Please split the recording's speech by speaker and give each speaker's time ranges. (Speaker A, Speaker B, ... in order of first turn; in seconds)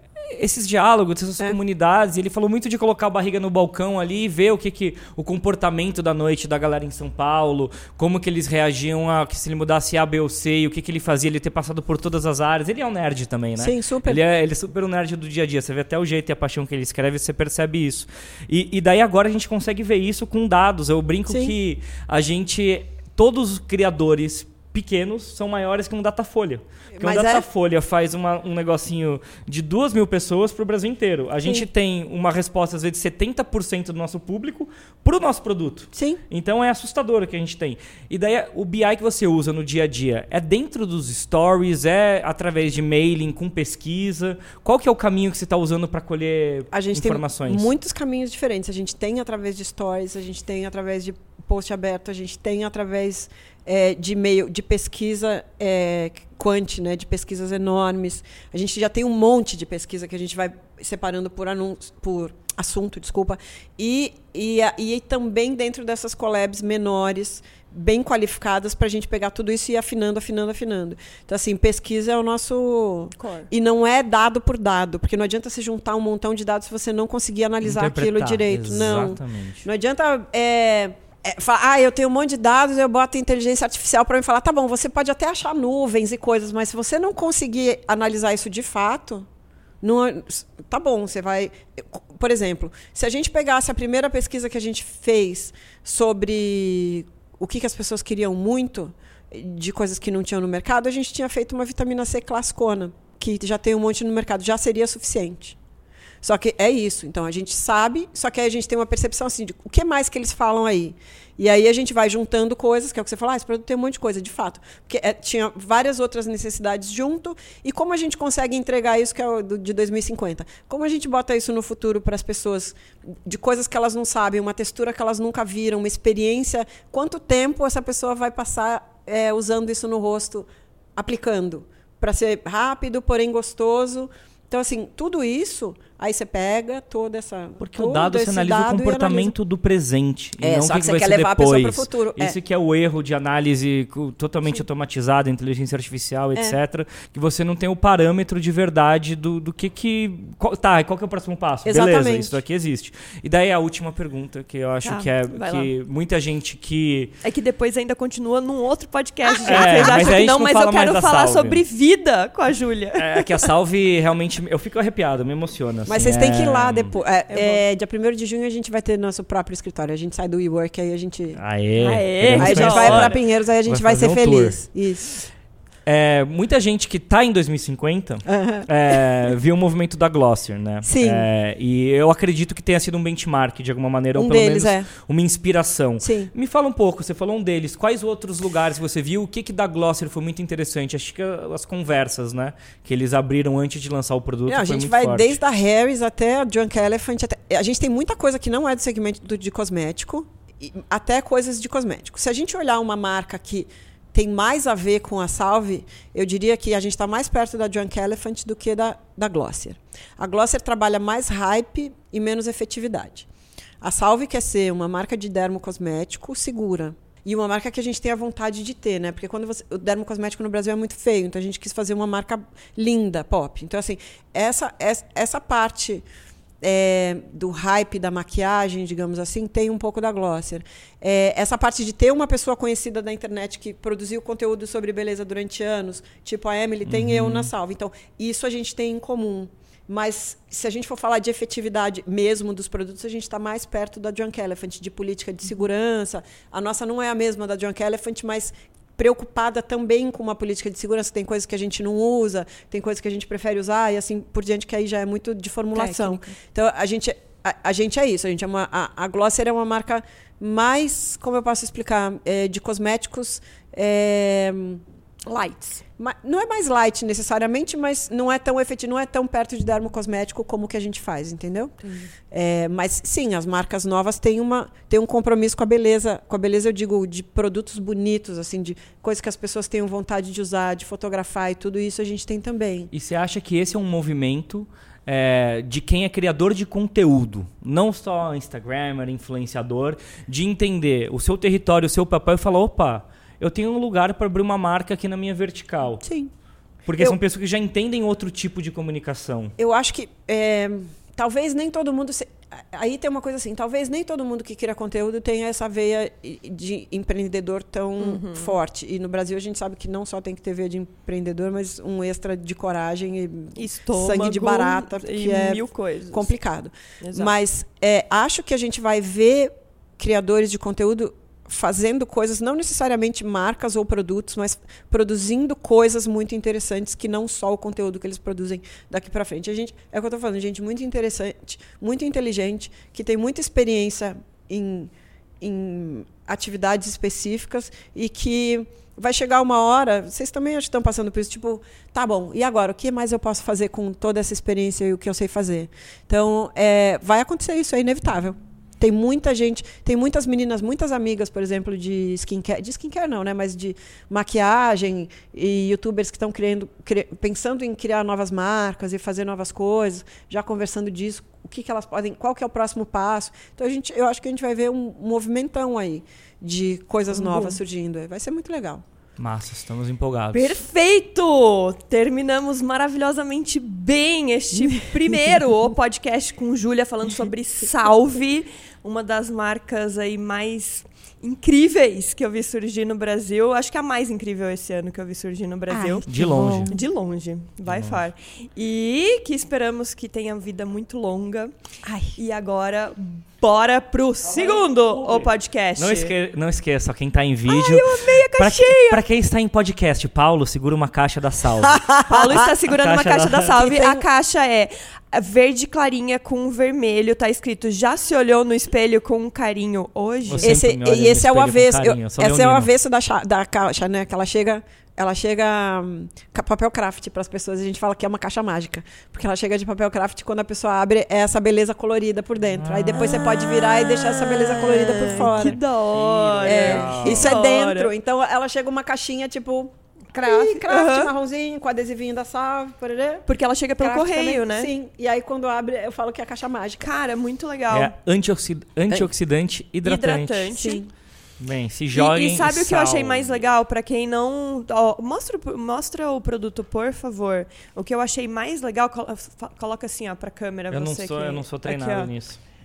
Speaker A: 0.3-47.7, 77.6-79.7, 137.6-157.1, 159.4-161.6, 163.0-166.9, 171.4-174.6, 175.9-195.4, 236.9-237.5, 282.9-296.1, 296.9-299.6, 369.2-370.6, 386.1-386.8, 387.7-388.0, 395.1-403.6, 410.3-412.7, 422.6-423.1, 425.9-427.4, 437.7-440.5, 441.4-443.4, 450.7-452.4
Speaker B: 13.6-14.2, 21.3-21.5, 26.9-27.5, 35.9-36.2, 46.7-89.3, 89.8-105.6, 106.2-139.3, 140.4-142.4, 151.7-152.4, 159.4-160.2, 165.9-171.4, 172.4-175.3, 178.3-179.0, 180.8-181.3, 184.2-184.9, 186.0-186.3, 194.5-213.3, 213.8-226.1, 226.6-271.7, 272.3-282.9, 296.0-296.3, 299.6-368.8, 374.5-375.2, 385.7-386.8, 391.9-392.2, 401.6-402.5, 403.6-404.1, 410.4-425.6, 426.4-433.3, 433.8-436.9, 440.5-440.9
Speaker C: 73.2-73.5, 154.8-155.7, 157.2-163.4, 167.3-167.6, 171.8-173.2, 255.7-256.3, 265.3-265.7, 271.8-272.1, 308.0-308.6, 313.6-316.3, 317.0-317.3, 367.1-367.6, 370.3-386.1, 386.7-391.5, 392.1-396.1, 397.5-399.0, 402.1-410.5, 422.9-427.9, 430.1-431.1, 433.3-434.7, 436.8-437.9, 439.8-440.8, 441.9-452.1